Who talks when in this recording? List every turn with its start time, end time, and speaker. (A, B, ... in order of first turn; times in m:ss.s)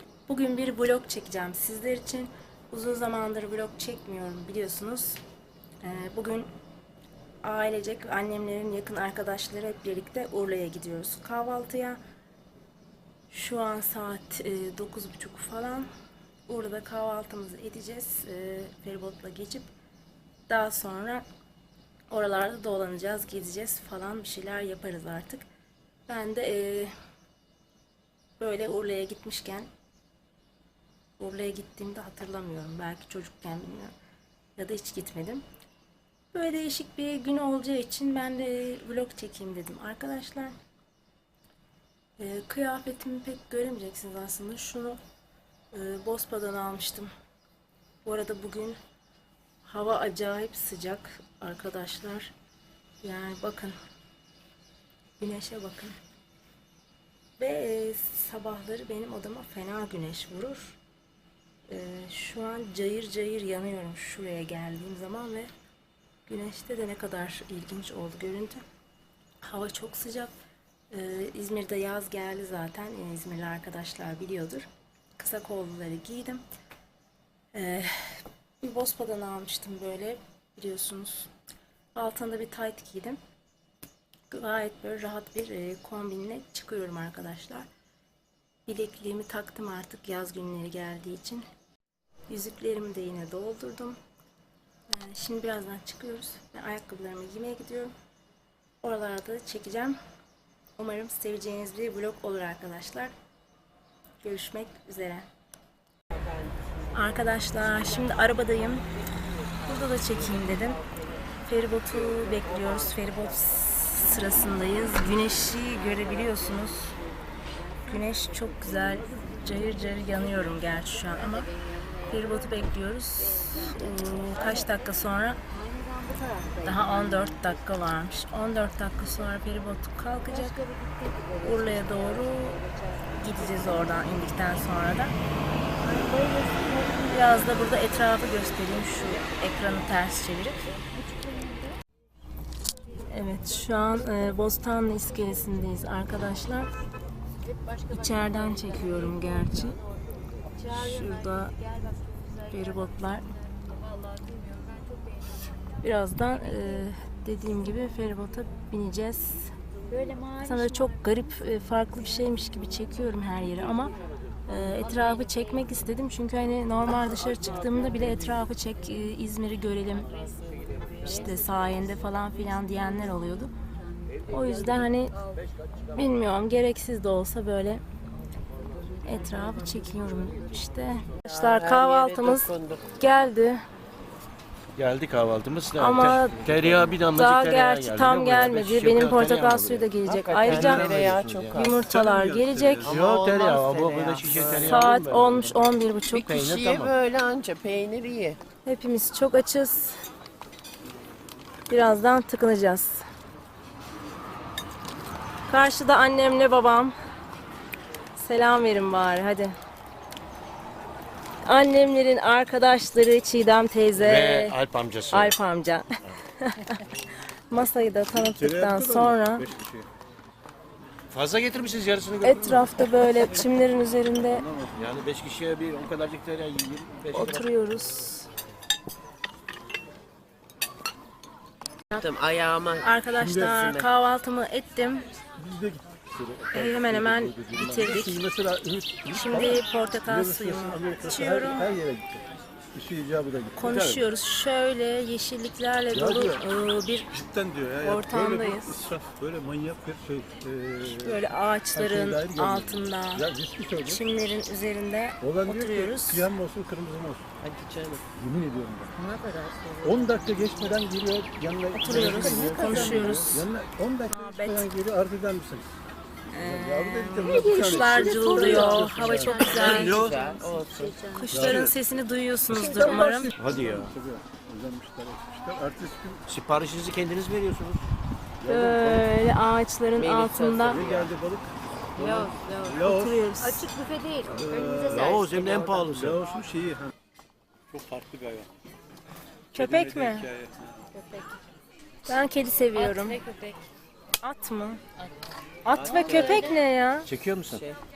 0:00.3-0:05.2 A
0:05.8-0:06.5 A
0:07.4-0:12.0 A
0:13.3-0:15.9 A
0:16.5-0:19.7 A
0:20.5-0:21.2 A
0:22.1-0:25.5 A
0:26.1-0:26.9 A
0:28.4-0:29.7 A
0:31.2-0:33.9 A
0:34.6-0:35.4 A
0:36.3-0:40.6 A
0:42.2-0:45.0 A
0:45.7-0:47.1 A
0:48.0-0:48.8 A
0:49.6-0:52.3 A
0:53.0-0:53.8 A
0:55.2-0:55.9 A
0:57.4-1:00.8 A
1:01.7-1:05.5 A
1:06.2-1:08.6 A
1:09.4-1:10.3 A
1:10.9-1:16.4 A
1:17.5-1:21.3 A
1:22.0-1:23.2 A
1:24.3-1:27.7 A
1:28.7-1:31.4 A
1:32.3-1:34.0 A
1:34.9-1:37.9 A
1:38.8-1:40.0 A
1:40.8-1:43.1 A
1:44.2-1:45.3 A
1:46.9-1:48.9 A
1:49.6-1:50.8 A
1:51.4-1:57.0 A
1:52.1-1:53.1 B
1:57.9-2:01.5 A
2:02.1-2:05.4 A
2:05.5-2:06.7 C
2:06.6-2:10.6 A
2:10.5-2:11.5 C
2:11.4-2:12.6 A
2:13.2-2:15.2 A
2:15.8-2:17.8 C
2:17.0-2:20.6 A
2:20.9-2:21.8 C
2:23.1-2:26.7 A
2:27.9-2:29.8 A
2:30.7-2:31.5 A
2:31.5-2:32.3 C
2:32.4-2:33.2 A
2:35.8-2:39.5 A
2:39.9-2:40.9 C
2:40.4-2:43.9 A
2:44.5-2:50.1 A
2:51.0-2:53.5 A
2:54.3-2:55.1 A
2:55.9-2:57.8 A
2:59.0-3:03.6 A
3:01.2-3:02.9 B
3:04.8-3:09.8 D
3:05.8-3:10.9 A
3:10.0-3:11.8 B
3:10.4-3:11.7 D
3:10.5-3:11.2 E
3:11.5-3:12.9 A
3:11.7-3:13.0 E
3:12.8-3:14.8 B
3:12.8-3:15.6 D
3:14.5-3:16.3 A
3:16.1-3:18.4 B
3:16.2-3:16.9 D
3:18.6-3:20.0 A
3:21.7-3:23.0 A
3:25.5-3:26.9 A
3:28.2-3:29.5 A
3:31.4-3:34.6 A
3:34.0-3:35.3 D
3:35.1-3:36.8 A
3:37.5-3:39.5 A
3:38.2-3:39.9 E
3:41.1-3:43.1 D
3:42.2-3:44.5 A
3:44.3-3:44.8 E
3:44.8-3:47.5 D
3:47.1-3:48.3 A
3:51.9-3:53.9 B
3:52.8-3:55.1 A
3:53.2-3:53.7 E
3:55.4-4:04.0 E
3:56.5-3:58.2 A
3:59.1-4:01.7 A
4:03.5-4:07.1 A
4:05.9-4:06.4 E
4:07.1-4:11.2 E
4:07.8-4:08.8 A
4:10.8-4:13.3 A
4:11.7-4:14.0 E
4:13.8-4:16.3 A
4:15.2-4:17.2 E
4:17.4-4:18.0 B
4:18.1-4:18.9 E
4:19.0-4:20.3 C
4:19.3-4:19.9 B
4:19.8-4:25.7 E
4:21.7-4:23.5 A
4:22.0-4:23.3 B
4:24.1-4:24.7 A
4:26.3-4:30.0 A
4:26.4-4:29.4 E
4:27.8-4:31.0 B
4:27.9-4:31.5 C
4:29.5-4:30.2 D
4:31.2-4:33.3 A
4:31.3-4:31.7 E
4:32.6-4:33.0 B
4:32.6-4:36.2 E
4:33.4-4:33.9 D
4:36.3-4:37.8 D
4:38.4-4:39.1 E
4:38.4-4:40.8 A
4:39.9-4:41.1 B
4:40.6-4:43.2 E
4:42.0-4:42.8 C
4:42.7-4:43.6 A
4:43.4-4:45.3 C
4:44.2-4:46.9 E
4:44.9-4:46.2 D
4:45.1-4:45.7 B
4:47.7-4:48.5 E
4:49.5-4:50.3 A
4:49.5-4:50.8 E
4:50.9-4:51.4 C
4:52.1-4:53.2 A
4:52.7-4:53.6 C
4:54.2-4:54.8 A
4:55.6-4:57.1 A
4:55.7-4:56.5 B
4:55.8-4:56.5 C
4:57.0-4:57.6 D